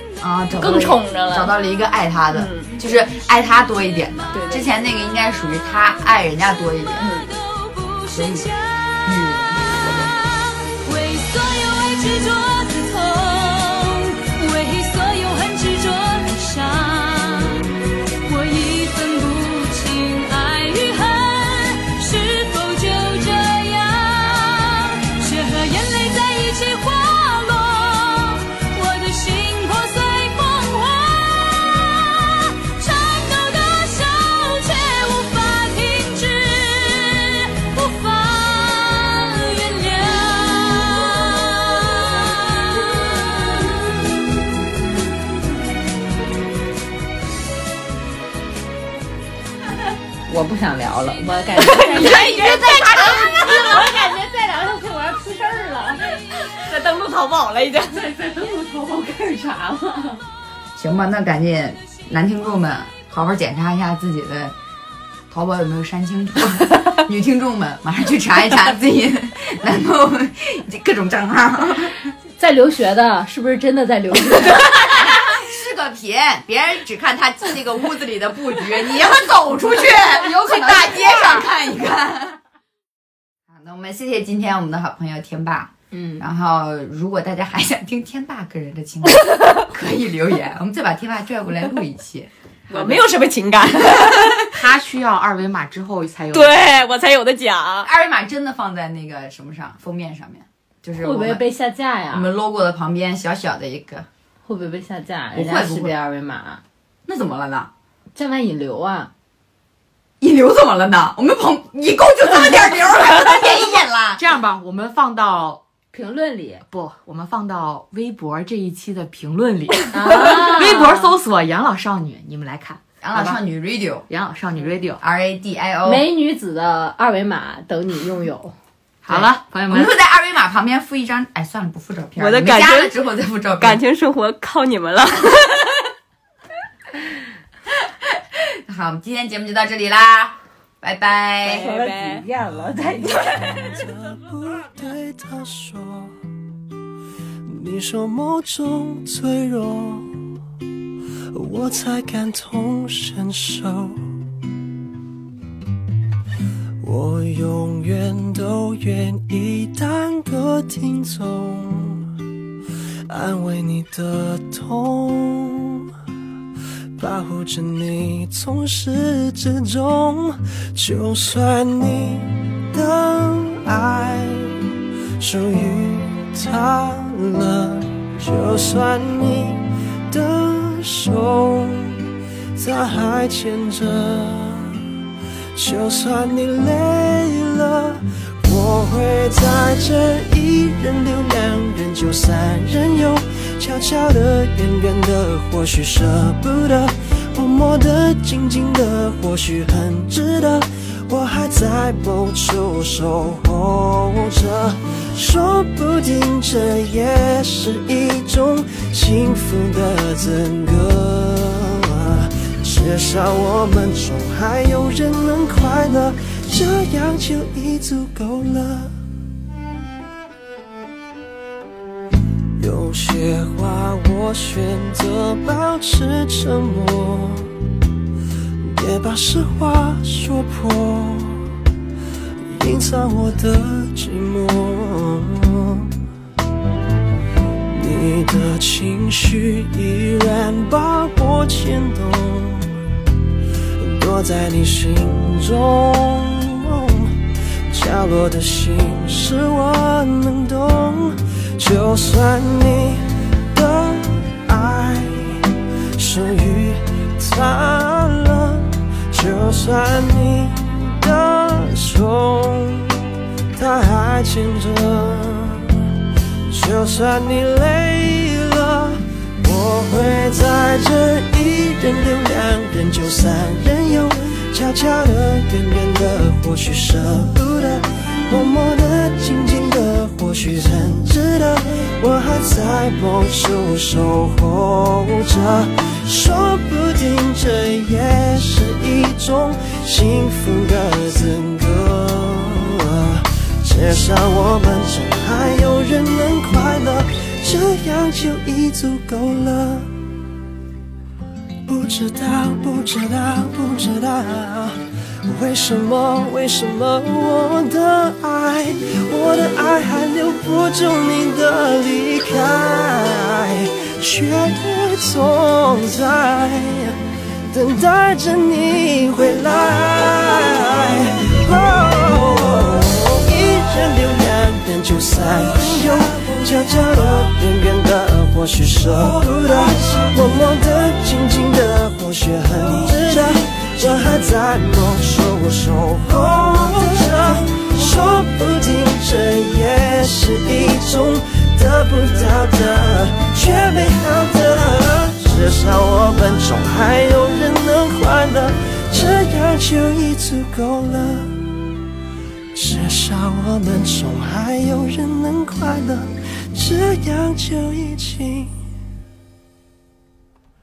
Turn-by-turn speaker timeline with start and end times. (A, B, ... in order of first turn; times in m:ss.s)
0:00.2-0:07.0 A
0:00.6-0:01.5 B
0:02.3-0:02.8 B
0:04.3-0:04.7 B
0:07.0-0:07.3 B
0:07.0-0:17.7 C
0:08.1-0:08.5 A
0:09.0-0:10.0 A
0:18.2-0:44.0 C
0:50.3-0:56.0 D
0:51.6-0:53.8 B
0:52.0-0:53.5 A
0:56.5-0:58.1 B
0:58.0-1:00.2 D
1:00.8-1:04.6 A
1:05.3-1:12.1 A
1:12.4-1:15.1 D
1:14.7-1:22.4 A
1:23.5-1:32.3 A
1:25.9-1:26.3 D
1:32.7-1:34.4 B
1:34.4-1:36.9 E
1:36.3-1:37.9 B
1:37.8-1:41.4 A
1:41.0-1:42.3 D
1:42.1-1:44.0 A
1:44.4-1:46.6 D
1:45.3-1:46.0 A
1:47.0-1:47.7 A
1:48.1-1:49.1 D
1:50.2-1:54.2 A
1:54.2-1:55.6 E
1:55.9-1:56.6 D
1:56.7-2:03.4 E
1:59.9-2:01.1 D
2:03.0-2:04.1 A
2:04.1-2:05.0 E
2:05.0-2:06.0 A
2:05.8-2:08.5 D
2:09.0-2:10.0 E
2:09.1-2:13.8 A
2:12.2-2:13.0 B
2:13.6-2:15.8 B
2:17.9-2:21.7 A
2:21.4-2:23.8 D
2:21.5-2:22.3 B
2:23.6-2:26.1 F
2:27.4-2:30.1 F
2:31.3-2:34.0 F
2:36.8-2:42.1 F
2:43.1-2:45.9 F
2:47.0-2:54.6 F
2:55.2-3:02.0 F
3:02.5-3:04.8 F
3:05.6-3:38.9 F
3:42.6-3:47.5 F
3:48.6-3:51.5 F
3:52.4-3:56.0 F
3:57.7-4:02.8 F
4:03.8-4:07.1 F
4:07.7-4:23.0 F
4:23.6-4:25.8 F
4:26.5-4:59.9 F
5:01.7-5:17.0 F
5:17.5-5:51.5 F
5:52.5-5:58.5 F